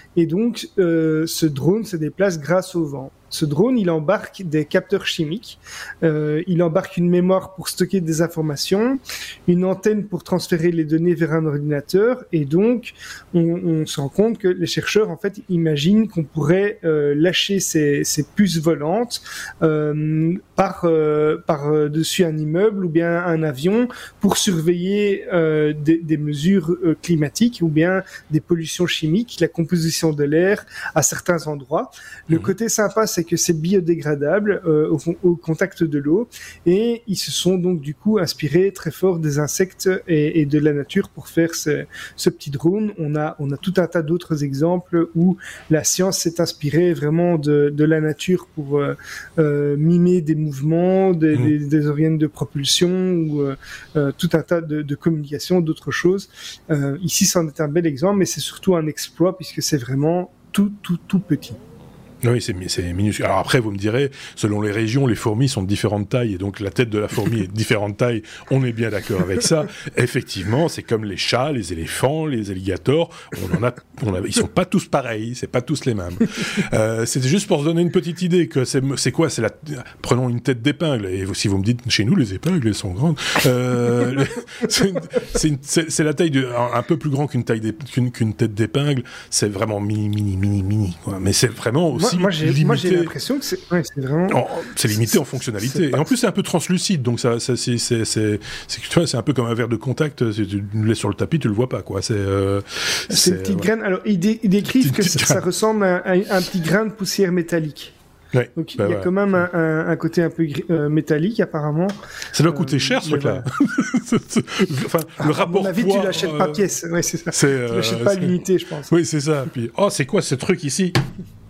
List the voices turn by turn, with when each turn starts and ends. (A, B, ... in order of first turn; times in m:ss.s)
0:00.2-1:01.6 A
1:02.2-1:33.1 B
1:32.0-1:35.2 A
1:34.3-1:43.7 B
1:43.1-1:47.9 A
1:44.8-1:45.4 B
1:48.3-1:49.1 B
1:48.6-1:52.0 A
1:52.3-1:56.6 B
1:52.5-1:53.5 A
1:55.2-1:58.9 A
1:57.3-2:01.0 B